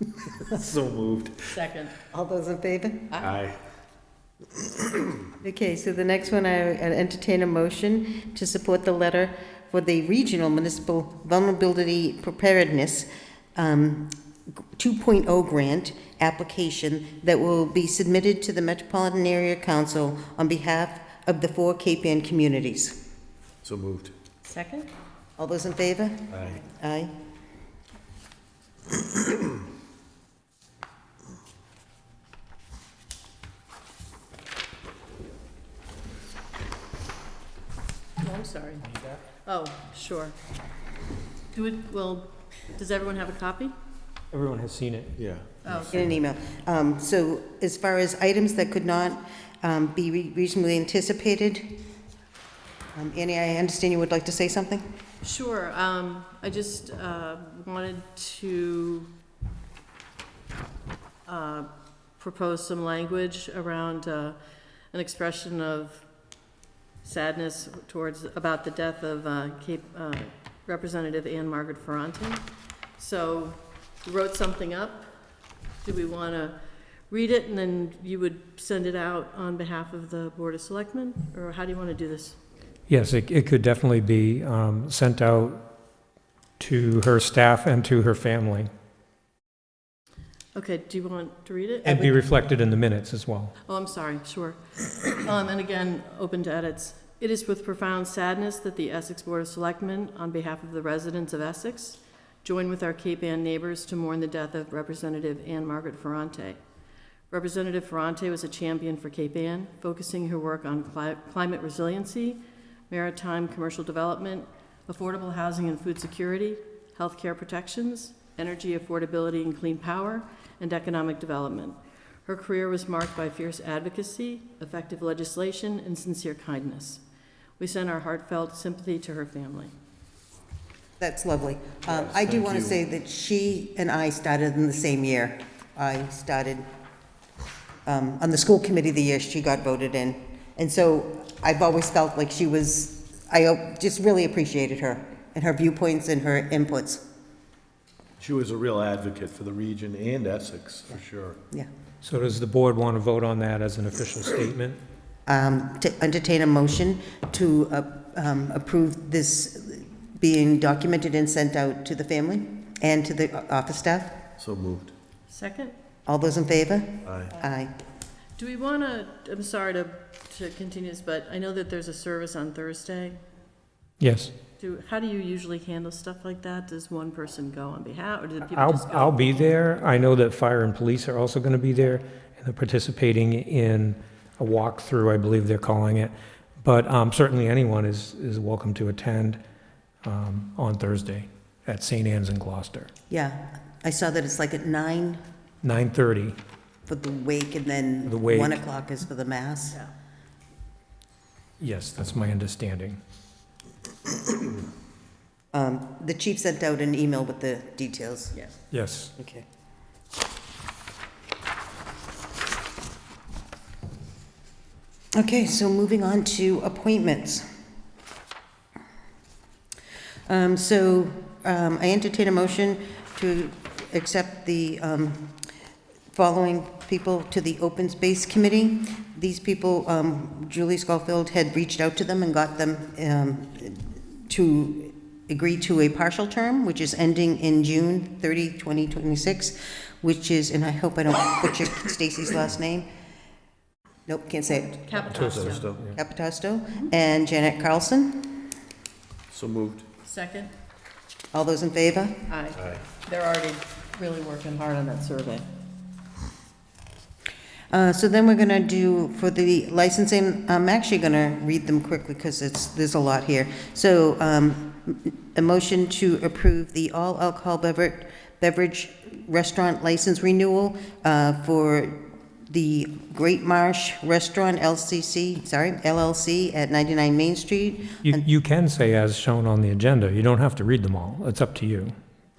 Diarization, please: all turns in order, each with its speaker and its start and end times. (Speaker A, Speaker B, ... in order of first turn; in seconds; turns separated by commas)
Speaker A: 0.3-1.5, Speaker B: 1.5-1.9, Speaker C: 2.1-3.1, Speaker A: 3.2-3.6, Speaker C: 5.4-14.1, Speaker C: 14.8-23.0, Speaker A: 23.6-24.1, Speaker B: 24.4-24.9, Speaker C: 25.4-27.1, Speaker A: 26.3-26.6, Speaker B: 38.2-38.9, Speaker D: 38.9-39.2, Speaker B: 39.5-40.4, Speaker B: 41.5-43.7, Speaker D: 44.3-45.1, Speaker A: 45.2-46.0, Speaker B: 45.6-46.0, Speaker C: 45.9-51.8, Speaker C: 53.0-54.9, Speaker B: 55.2-59.1, Speaker B: 61.3-64.4, Speaker B: 64.9-66.0, Speaker B: 67.0-72.4, Speaker B: 73.0-75.1, Speaker B: 75.8-76.6, Speaker B: 77.1-82.4, Speaker D: 82.9-85.6, Speaker D: 86.6-88.7, Speaker B: 90.5-92.2, Speaker D: 91.8-93.5, Speaker B: 93.7-106.6, Speaker B: 107.3-127.0, Speaker B: 127.6-129.7, Speaker C: 131.0-136.7, Speaker A: 131.9-132.8, Speaker C: 137.9-147.0, Speaker A: 148.2-151.4, Speaker D: 152.0-154.8, Speaker C: 155.3-164.2, Speaker A: 164.4-164.9, Speaker B: 165.3-165.8, Speaker C: 166.1-167.7, Speaker A: 167.1-167.3, Speaker B: 168.4-173.2, Speaker D: 174.0-174.3, Speaker B: 174.6-179.5, Speaker D: 178.5-189.4, Speaker D: 190.0-192.9, Speaker C: 193.1-195.2, Speaker D: 195.6-196.4, Speaker C: 196.9-199.8, Speaker D: 198.1-198.6, Speaker D: 201.6-203.0, Speaker C: 205.5-208.3, Speaker D: 208.7-209.1, Speaker C: 209.2-209.4, Speaker C: 215.2-217.4, Speaker C: 220.3-225.4, Speaker C: 226.1-242.9, Speaker C: 244.1-245.0, Speaker B: 244.5-245.7, Speaker A: 245.1-245.8, Speaker D: 245.1-246.0, Speaker C: 245.9-248.5, Speaker A: 249.3-249.8, Speaker B: 250.0-250.5, Speaker C: 251.3-252.2, Speaker B: 252.3-255.5, Speaker C: 257.7-278.2, Speaker D: 278.0-281.9